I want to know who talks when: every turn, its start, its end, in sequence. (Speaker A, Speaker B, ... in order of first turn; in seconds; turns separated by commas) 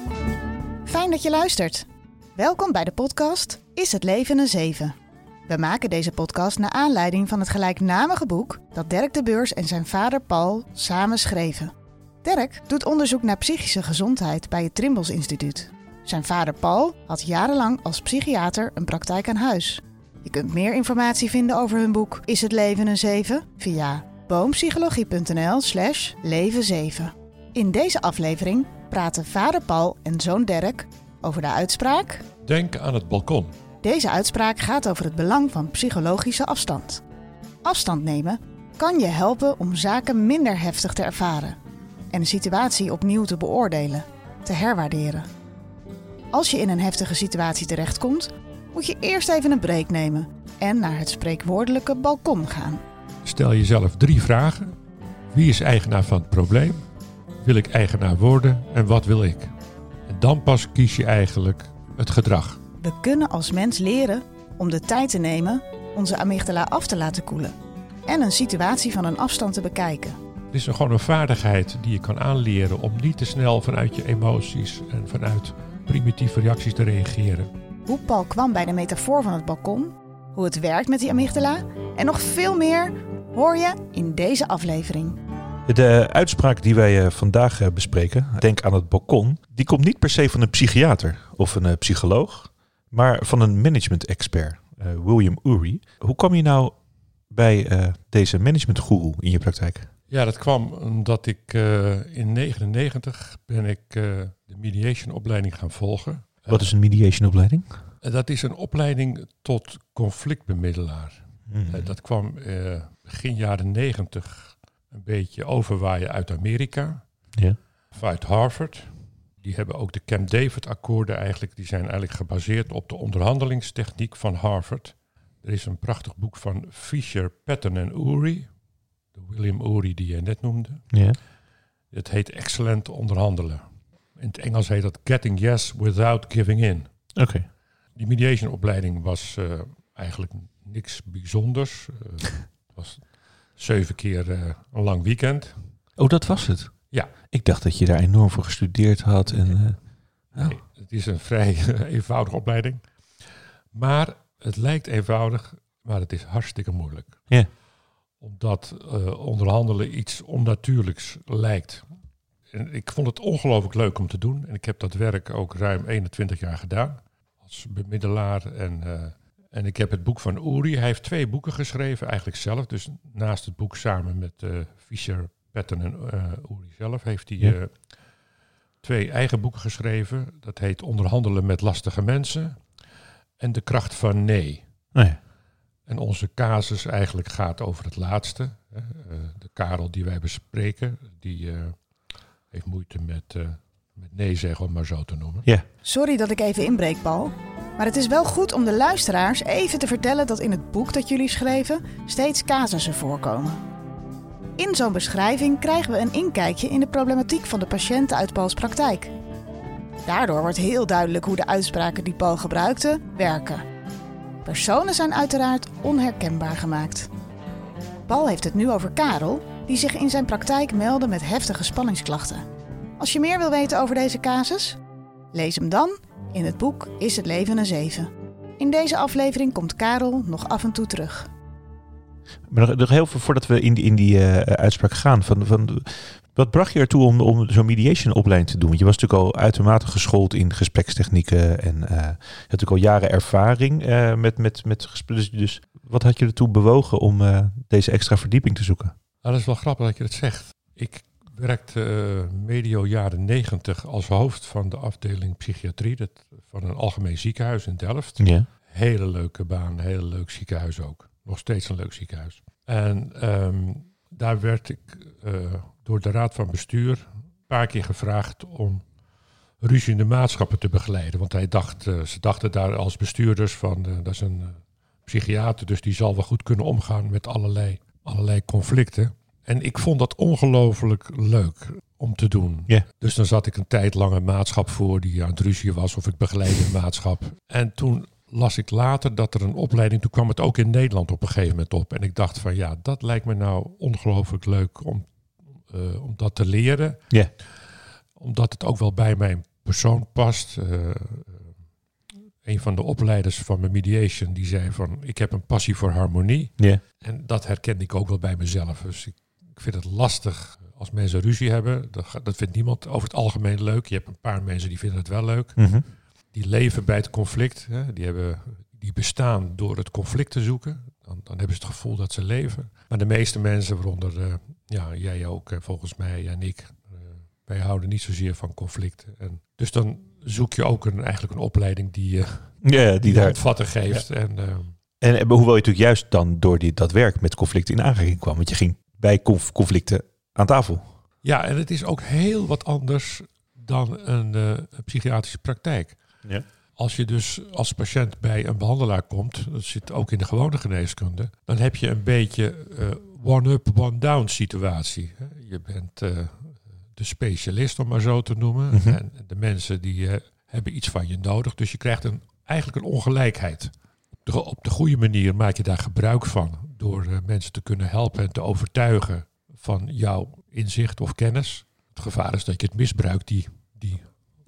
Speaker A: 0.8-5.0, Speaker A: 5.5-11.7, Speaker A: 12.2-32.2, Speaker B: 32.4-33.5, Speaker A: 33.8-37.0, Speaker A: 37.6-41.6, Speaker A: 42.1-45.3, Speaker A: 46.3-52.8, Speaker B: 53.2-54.7, Speaker B: 55.3-56.8, Speaker B: 57.4-59.5, Speaker B: 60.1-62.6, Speaker A: 62.8-67.5, Speaker A: 68.0-70.2, Speaker B: 70.5-77.5, Speaker A: 77.9-85.2, Speaker C: 85.7-96.8, Speaker C: 97.3-99.9, Speaker B: 100.1-106.7, Speaker C: 106.5-107.8, Speaker B: 108.0-117.0, Speaker C: 111.5-111.9, Speaker B: 117.9-128.5, Speaker B: 129.1-130.8, Speaker C: 130.9-131.2, Speaker B: 131.9-133.6, Speaker B: 134.2-136.9, Speaker C: 137.2-137.4, Speaker B: 137.9-145.7, Speaker C: 146.0-150.5, Speaker B: 150.3-152.8, Speaker B: 153.7-157.2, Speaker B: 158.2-161.8, Speaker B: 162.5-177.9, Speaker B: 178.8-182.6, Speaker B: 183.4-184.6, Speaker B: 185.9-191.8, Speaker B: 192.5-195.5, Speaker A: 195.8-203.6, Speaker A: 204.6-209.1, Speaker A: 210.0-213.6, Speaker A: 214.4-217.1, Speaker A: 218.1-222.4, Speaker A: 223.0-224.8, Speaker A: 225.3-231.3, Speaker C: 232.5-248.9, Speaker B: 249.2-268.8, Speaker C: 258.2-258.5, Speaker B: 269.6-295.1, Speaker B: 295.6-297.6, Speaker B: 298.1-301.5, Speaker B: 302.4-315.7, Speaker C: 315.6-315.8, Speaker B: 316.3-334.7, Speaker C: 332.6-333.4, Speaker C: 335.0-340.9, Speaker B: 341.2-346.0, Speaker B: 346.8-363.7, Speaker C: 358.7-359.0, Speaker B: 364.2-374.1